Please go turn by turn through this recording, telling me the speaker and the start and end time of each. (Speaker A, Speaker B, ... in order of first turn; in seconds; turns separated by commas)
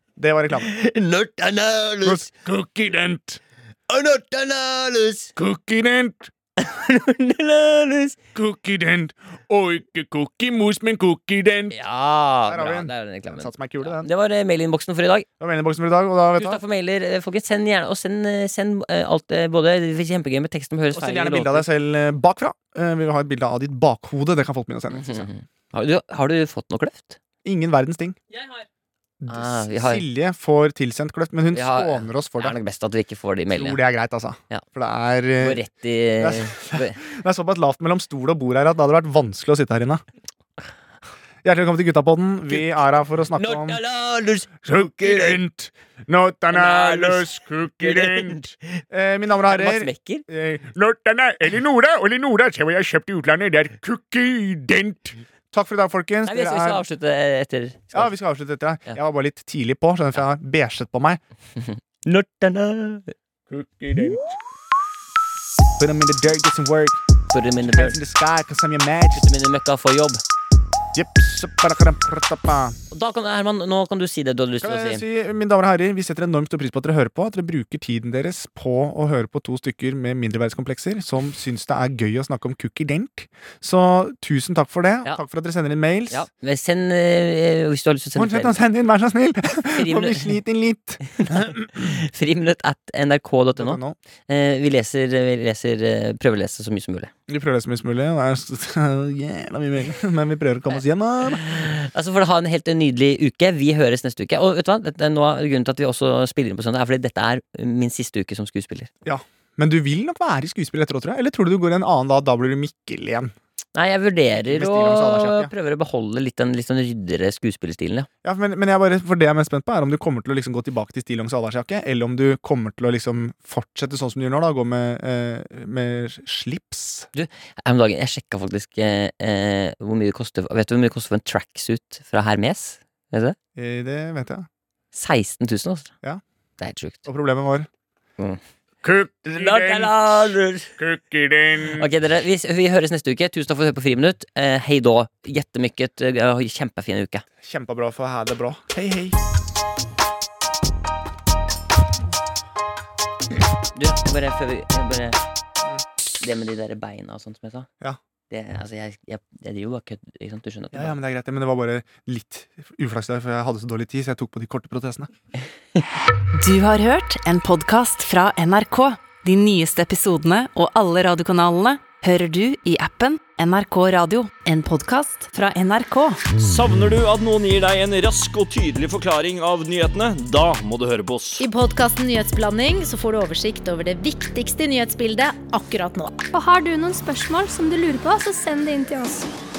Speaker A: 0.2-0.7, Speaker B: 0.6-2.2, Speaker C: 2.1-3.4, Speaker B: 3.9-5.3, Speaker C: 5.4-6.3, Speaker B: 6.6-8.2, Speaker C: 8.3-11.8, Speaker B: 11.7-15.3, Speaker A: 12.5-14.1, Speaker A: 15.4-16.6, Speaker B: 16.4-21.7, Speaker A: 20.9-25.3, Speaker B: 24.9-27.2, Speaker A: 27.4-28.2, Speaker B: 28.3-28.6, Speaker A: 29.2-32.6, Speaker B: 29.3-30.1, Speaker B: 31.5-33.8, Speaker A: 33.5-35.6, Speaker B: 35.4-37.0, Speaker A: 36.2-40.0, Speaker A: 41.4-43.8, Speaker B: 43.3-45.4, Speaker C: 44.6-48.5, Speaker B: 46.5-47.3, Speaker B: 47.8-48.8, Speaker A: 48.9-50.7, Speaker B: 49.5-50.2, Speaker C: 50.7-55.2, Speaker A: 55.5-56.8, Speaker B: 56.3-58.1, Speaker A: 57.9-61.2, Speaker B: 61.6-63.1, Speaker C: 63.5-64.3, Speaker A: 65.8-67.0, Speaker B: 67.3-68.0, Speaker A: 67.6-69.3, Speaker B: 69.2-70.2, Speaker A: 70.9-72.8, Speaker B: 72.9-75.0, Speaker A: 74.6-86.3, Speaker B: 86.1-88.6, Speaker A: 88.2-91.9, Speaker B: 89.8-90.4, Speaker B: 91.0-97.1, Speaker A: 93.6-94.0, Speaker A: 97.3-101.6, Speaker B: 101.3-108.9, Speaker A: 109.0-113.3, Speaker B: 113.8-118.1, Speaker A: 114.4-115.5, Speaker A: 118.2-127.1, Speaker B: 127.1-133.4, Speaker A: 133.6-134.5, Speaker B: 134.9-135.9, Speaker B: 136.6-137.0, Speaker A: 137.1-137.7, Speaker C: 138.8-141.9, Speaker B: 139.3-140.7, Speaker B: 141.7-147.2, Speaker A: 147.4-149.2, Speaker B: 153.8-155.2, Speaker B: 156.2-157.7, Speaker B: 158.3-160.9, Speaker A: 160.7-165.1, Speaker D: 166.3-176.3, Speaker E: 176.4-181.4, Speaker F: 181.4-186.2, Speaker G: 186.3-189.3